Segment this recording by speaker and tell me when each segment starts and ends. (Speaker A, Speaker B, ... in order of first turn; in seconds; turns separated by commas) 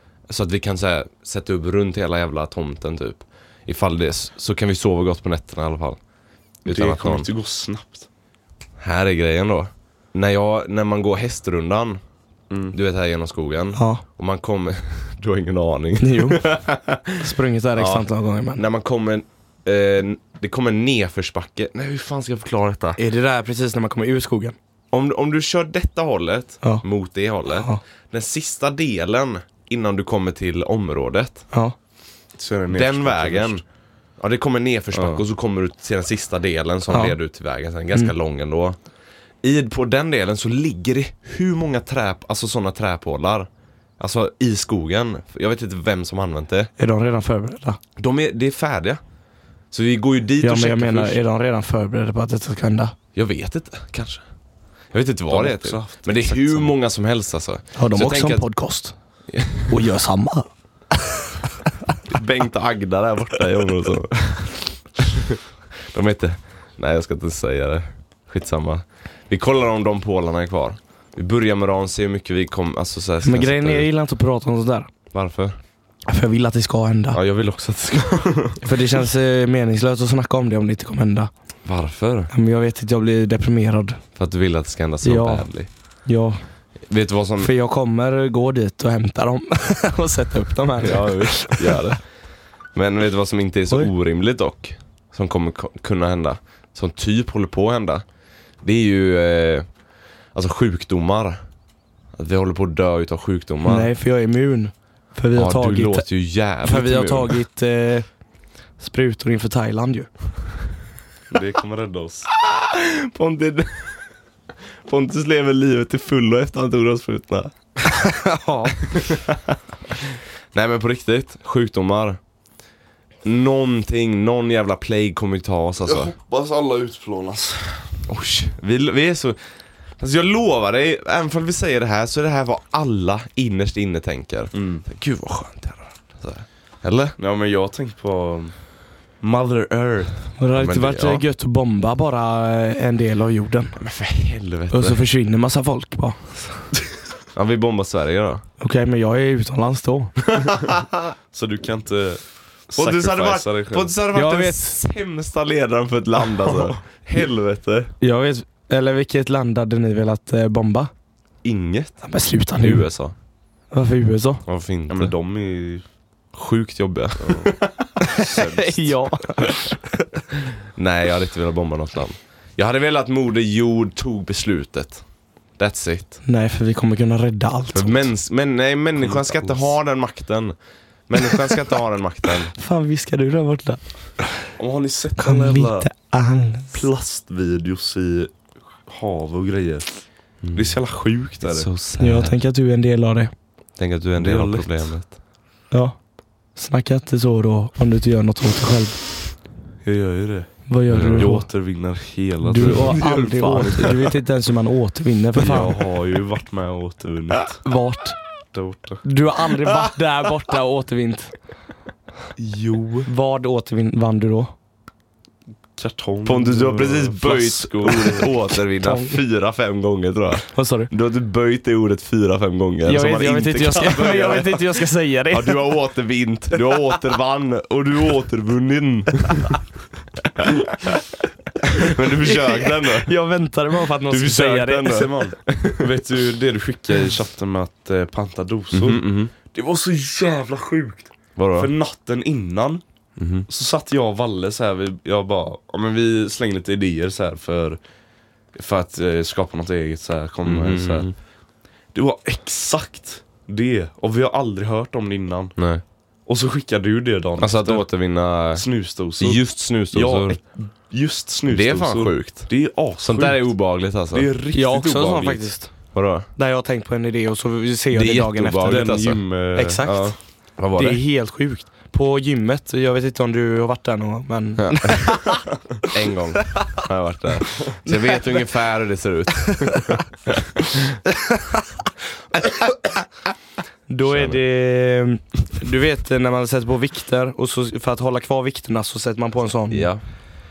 Speaker A: 0.3-6.0, Speaker A: 6.7-7.3, Speaker B: 6.7-8.1, Speaker A: 8.8-12.0, Speaker B: 12.5-12.8, Speaker A: 12.7-23.0, Speaker C: 13.8-14.0, Speaker C: 16.0-16.4, Speaker C: 17.2-18.6, Speaker C: 23.0-24.6, Speaker A: 24.9-31.4, Speaker C: 27.5-27.8, Speaker B: 32.4-33.6, Speaker A: 32.7-33.6, Speaker A: 34.2-38.8, Speaker B: 34.9-35.2, Speaker C: 36.9-37.2, Speaker A: 39.4-46.7, Speaker C: 46.8-47.8, Speaker A: 48.0-49.0, Speaker A: 49.7-51.2, Speaker C: 50.4-52.9, Speaker A: 53.1-54.2, Speaker A: 54.9-58.4, Speaker B: 55.3-56.7, Speaker C: 57.8-58.9, Speaker A: 59.3-59.8, Speaker C: 59.7-60.5, Speaker A: 62.1-65.4, Speaker A: 65.9-73.9, Speaker C: 73.2-74.9, Speaker A: 75.1-75.6, Speaker C: 76.1-77.2, Speaker A: 77.1-78.6, Speaker C: 78.6-81.3, Speaker A: 81.7-82.3, Speaker C: 82.3-84.0, Speaker A: 84.2-85.7, Speaker C: 85.0-85.5, Speaker C: 86.1-86.4, Speaker A: 86.9-87.5, Speaker C: 87.4-91.9, Speaker A: 90.8-92.0, Speaker A: 92.7-98.0, Speaker A: 98.6-99.7, Speaker A: 100.3-101.4, Speaker A: 102.2-103.9, Speaker C: 103.7-106.1, Speaker A: 105.3-107.4, Speaker C: 106.6-108.1, Speaker C: 108.8-110.1, Speaker B: 111.3-112.3, Speaker A: 112.4-114.0, Speaker A: 114.9-117.5, Speaker C: 117.8-118.9, Speaker A: 118.8-119.6, Speaker A: 120.5-122.2, Speaker A: 123.2-126.1, Speaker B: 125.8-128.0, Speaker A: 128.1-129.4, Speaker A: 130.0-137.2, Speaker B: 134.5-134.8, Speaker B: 137.2-138.7, Speaker B: 139.2-140.2, Speaker C: 140.4-143.8, Speaker A: 140.5-141.2, Speaker A: 143.8-145.1, Speaker C: 144.7-146.5, Speaker A: 147.3-148.4, Speaker C: 148.6-150.2, Speaker A: 150.3-151.1, Speaker B: 151.3-153.9, Speaker A: 152.8-157.9, Speaker C: 154.1-154.7, Speaker C: 158.0-160.9, Speaker A: 161.4-162.0, Speaker C: 162.0-162.9, Speaker A: 162.6-163.2, Speaker C: 163.7-164.4, Speaker A: 164.5-165.1, Speaker B: 164.9-165.8, Speaker A: 166.3-167.7, Speaker B: 167.2-167.5, Speaker C: 168.0-170.1, Speaker B: 168.2-169.1, Speaker A: 170.8-175.0, Speaker A: 175.6-176.2, Speaker C: 176.2-178.1, Speaker A: 177.7-180.6, Speaker B: 179.0-179.7, Speaker A: 181.1-182.5, Speaker C: 182.5-184.3, Speaker B: 184.6-185.9, Speaker C: 185.2-186.8, Speaker B: 186.7-188.3, Speaker B: 188.9-189.9, Speaker A: 190.4-190.8, Speaker B: 190.5-191.7, Speaker A: 191.4-192.4, Speaker C: 192.0-193.3, Speaker A: 193.8-195.2, Speaker B: 194.2-194.9, Speaker C: 195.7-196.0, Speaker C: 196.6-199.0, Speaker B: 199.8-204.1, Speaker C: 200.7-201.5, Speaker A: 200.9-201.3, Speaker C: 202.4-205.8, Speaker B: 205.4-207.6, Speaker C: 207.6-208.2, Speaker B: 208.5-209.1, Speaker C: 209.0-211.3, Speaker B: 212.4-213.1, Speaker C: 213.1-214.5, Speaker B: 215.8-218.3, Speaker A: 216.3-229.6, Speaker C: 218.8-219.2, Speaker C: 220.5-220.9, Speaker C: 222.8-225.6, Speaker A: 230.4-231.0, Speaker A: 231.6-233.1, Speaker C: 232.2-235.1, Speaker A: 234.1-235.9, Speaker B: 234.2-242.8, Speaker A: 238.7-239.3, Speaker A: 241.4-241.7, Speaker A: 243.2-243.5, Speaker B: 243.5-247.8, Speaker B: 248.6-251.1, Speaker A: 250.4-251.1, Speaker B: 251.9-255.6, Speaker A: 255.6-255.8, Speaker B: 256.3-257.9, Speaker A: 257.4-258.7, Speaker B: 258.5-263.5, Speaker A: 259.2-260.4, Speaker A: 261.5-262.5, Speaker A: 263.0-264.3, Speaker B: 264.1-265.5, Speaker C: 264.5-265.7, Speaker A: 265.9-266.3, Speaker C: 266.4-270.2, Speaker A: 267.9-269.2, Speaker B: 268.7-270.1, Speaker A: 270.6-271.0, Speaker C: 270.7-275.5, Speaker A: 274.6-280.9, Speaker C: 277.9-278.3, Speaker C: 281.3-281.6, Speaker C: 283.9-289.9, Speaker A: 284.1-284.4, Speaker A: 289.7-290.0